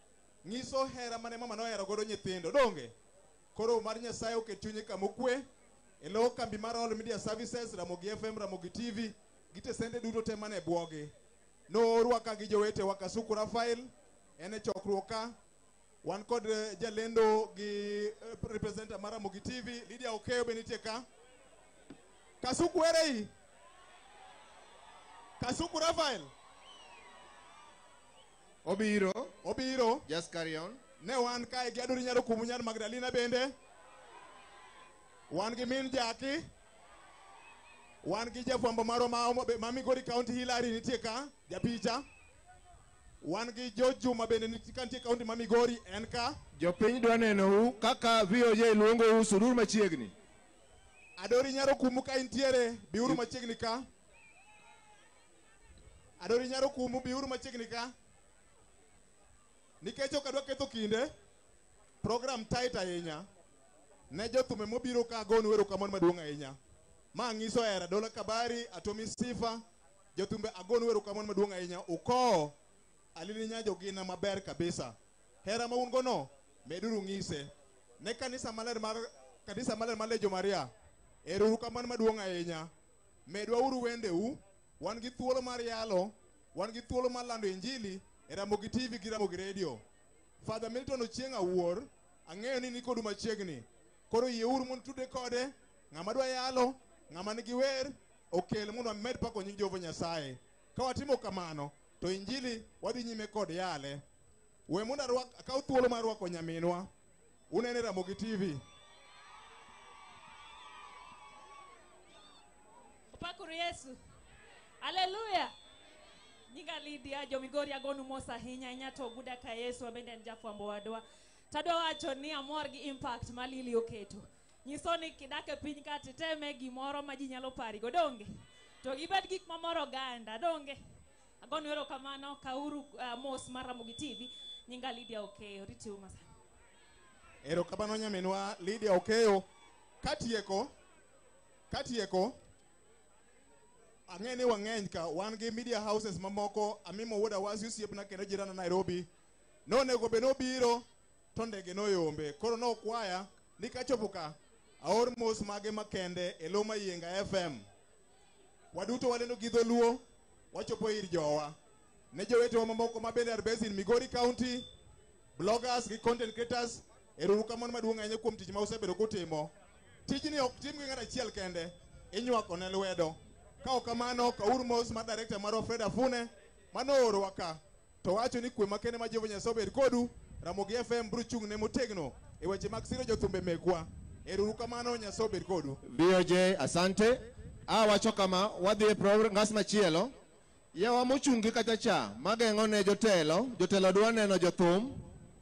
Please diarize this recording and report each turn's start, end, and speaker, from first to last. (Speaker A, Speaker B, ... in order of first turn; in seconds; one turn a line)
Speaker A: 0.4-2.9
Speaker A: 3.5-5.4
Speaker A: 6.0-11.1
Speaker A: 11.7-15.3
Speaker A: 16.0-21.0
Speaker A: 22.4-23.3
Speaker A: 25.4-26.3
Speaker B: 28.6-29.3
Speaker A: 29.4-30.0
Speaker B: 30.1-30.8
Speaker A: 31.0-33.5
Speaker A: 35.3-36.4
Speaker A: 38.0-42.0
Speaker A: 43.2-46.4
Speaker B: 46.6-50.1
Speaker A: 51.2-53.9
Speaker A: 56.2-57.9
Speaker A: 59.8-61.1
Speaker A: 62.0-63.2
Speaker A: 64.1-66.6
Speaker A: 67.1-69.6
Speaker A: 70.2-72.5
Speaker A: 73.2-80.7
Speaker A: 81.2-82.7
Speaker A: 83.3-89.8
Speaker A: 90.4-104.0
Speaker A: 104.7-106.9
Speaker A: 107.5-108.6
Speaker C: 113.1-114.0
Speaker C: 114.8-115.5
Speaker C: 116.5-128.3
Speaker C: 128.8-130.8
Speaker C: 131.4-136.2
Speaker A: 137.4-139.4
Speaker A: 140.0-140.7
Speaker A: 141.7-142.3
Speaker A: 144.1-149.1
Speaker A: 149.7-157.6
Speaker A: 158.7-160.0
Speaker A: 160.5-161.5
Speaker A: 162.1-164.7
Speaker A: 165.4-169.5
Speaker A: 170.1-185.8
Speaker B: 185.8-190.1
Speaker B: 190.7-195.0